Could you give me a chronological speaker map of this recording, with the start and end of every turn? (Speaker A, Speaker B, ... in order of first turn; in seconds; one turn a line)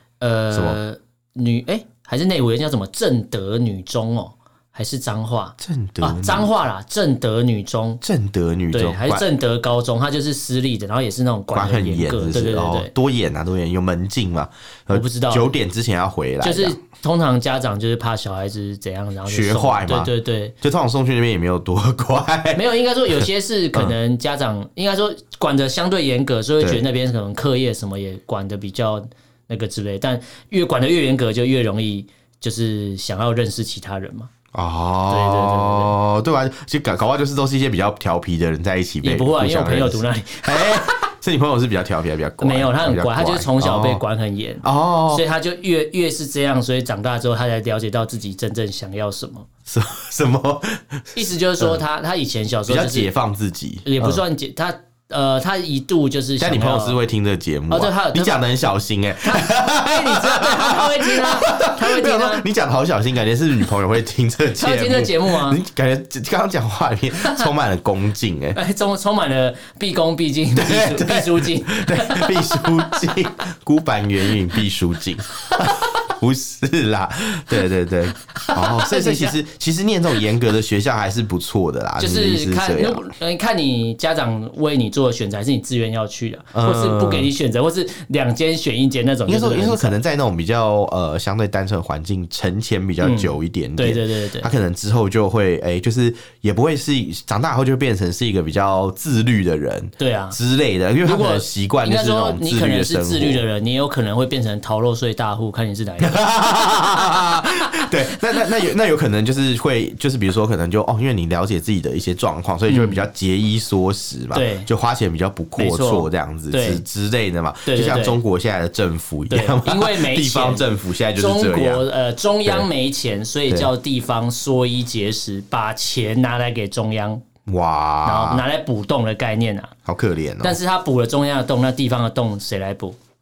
Speaker A: 0.2-8.0
Speaker B: 0.5-0.8
Speaker B: 5.6-6.5
Speaker B: 8.0-9.2
Speaker A: 8.7-12.9
Speaker B: 11.5-16.8
Speaker A: 14.9-15.5
Speaker A: 16.4-20.6
Speaker B: 19.3-22.7
Speaker A: 22.6-34.3
Speaker B: 34.5-44.0
Speaker A: 35.1-36.0
Speaker A: 39.0-41.0
Speaker A: 42.4-49.5
Speaker B: 44.6-45.2
Speaker B: 49.7-51.8
Speaker A: 51.1-53.1
Speaker B: 52.7-54.2
Speaker A: 53.9-57.0
Speaker B: 56.4-68.6
Speaker A: 57.7-58.4
Speaker A: 59.2-62.5
Speaker A: 64.6-65.6
Speaker A: 68.5-73.0
Speaker B: 70.6-83.0
Speaker A: 78.3-79.4
Speaker A: 82.0-90.0
Speaker B: 86.5-87.3
Speaker B: 89.3-103.4
Speaker A: 93.0-94.5
Speaker A: 100.0-100.4
Speaker A: 101.0-107.0
Speaker B: 106.0-121.8
Speaker A: 112.7-113.0
Speaker A: 114.3-114.7
Speaker A: 115.6-116.8
Speaker A: 117.7-118.2
Speaker A: 119.3-127.2
Speaker B: 127.5-128.4
Speaker A: 128.1-129.7
Speaker B: 129.9-130.6
Speaker A: 130.4-133.0